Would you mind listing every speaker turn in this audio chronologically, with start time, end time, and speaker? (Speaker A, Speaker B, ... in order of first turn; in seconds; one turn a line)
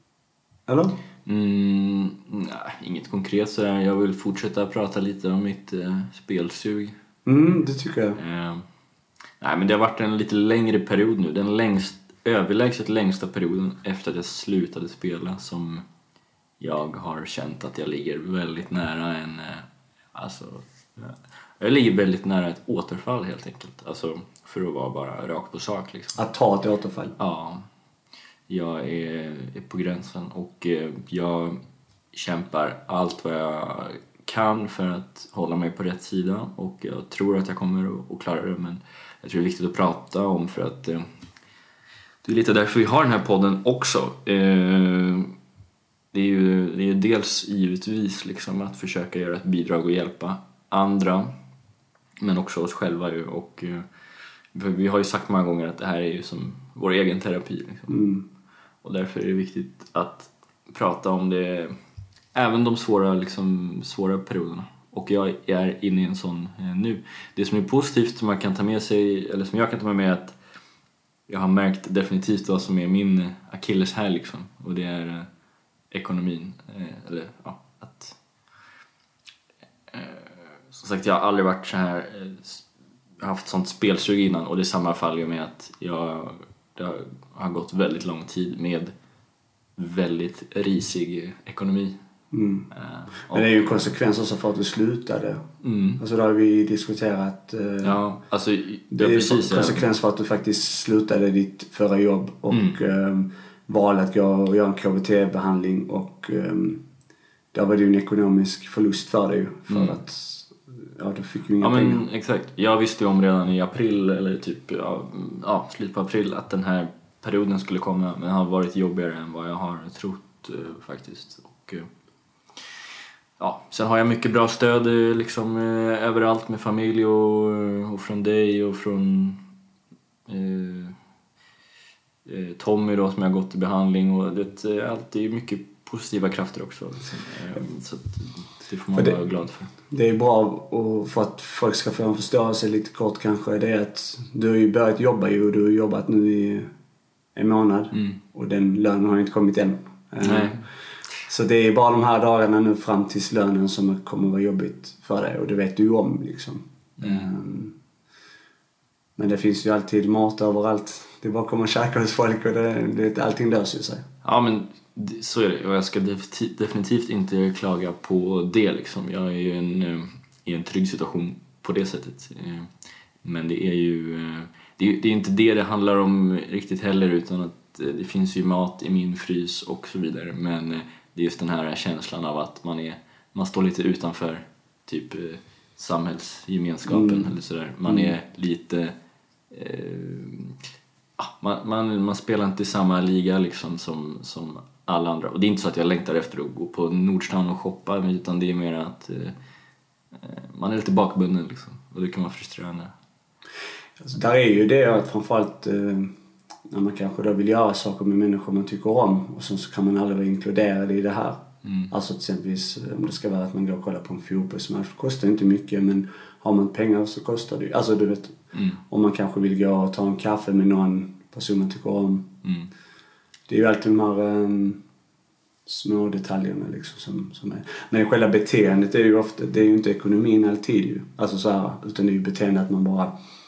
Speaker A: 0.7-1.0
Speaker B: 1.3-7.0
Speaker A: 7.2-8.2
Speaker B: 8.2-8.7
Speaker B: 9.4-15.8
Speaker B: 16.6-26.2
Speaker A: 26.2-27.1
Speaker B: 27.2-27.7
Speaker B: 28.5-31.6
Speaker B: 32.1-41.1
Speaker B: 42.2-45.3
Speaker B: 46.1-51.3
Speaker B: 52.2-53.9
Speaker B: 54.5-58.1
Speaker A: 57.9-58.2
Speaker B: 58.8-61.7
Speaker B: 62.3-70.4
Speaker B: 71.3-75.3
Speaker B: 75.9-78.2
Speaker B: 79.9-82.7
Speaker B: 83.2-88.9
Speaker B: 89.8-92.0
Speaker A: 92.3-92.7
Speaker B: 92.7-93.8
Speaker A: 93.3-95.5
Speaker B: 95.6-96.0
Speaker A: 96.0-98.0
Speaker B: 97.8-99.8
Speaker A: 98.9-106.8
Speaker B: 102.5-102.8
Speaker A: 107.5-112.0
Speaker B: 109.7-110.0
Speaker B: 111.6-121.9
Speaker B: 123.4-129.4
Speaker B: 130.3-131.0
Speaker B: 132.2-139.7
Speaker A: 139.9-146.7
Speaker A: 147.3-150.6
Speaker B: 147.9-148.2
Speaker B: 150.2-150.6
Speaker A: 151.3-157.8
Speaker B: 157.0-157.3
Speaker A: 159.2-164.0
Speaker B: 164.2-188.9
Speaker A: 186.9-187.3
Speaker A: 187.9-188.1
Speaker B: 189.5-190.6
Speaker B: 191.2-199.4
Speaker B: 200.2-202.9
Speaker A: 204.0-206.1
Speaker A: 206.7-222.3
Speaker B: 211.6-211.9
Speaker B: 218.5-218.8
Speaker B: 222.4-222.7
Speaker A: 223.5-224.8
Speaker A: 225.7-233.1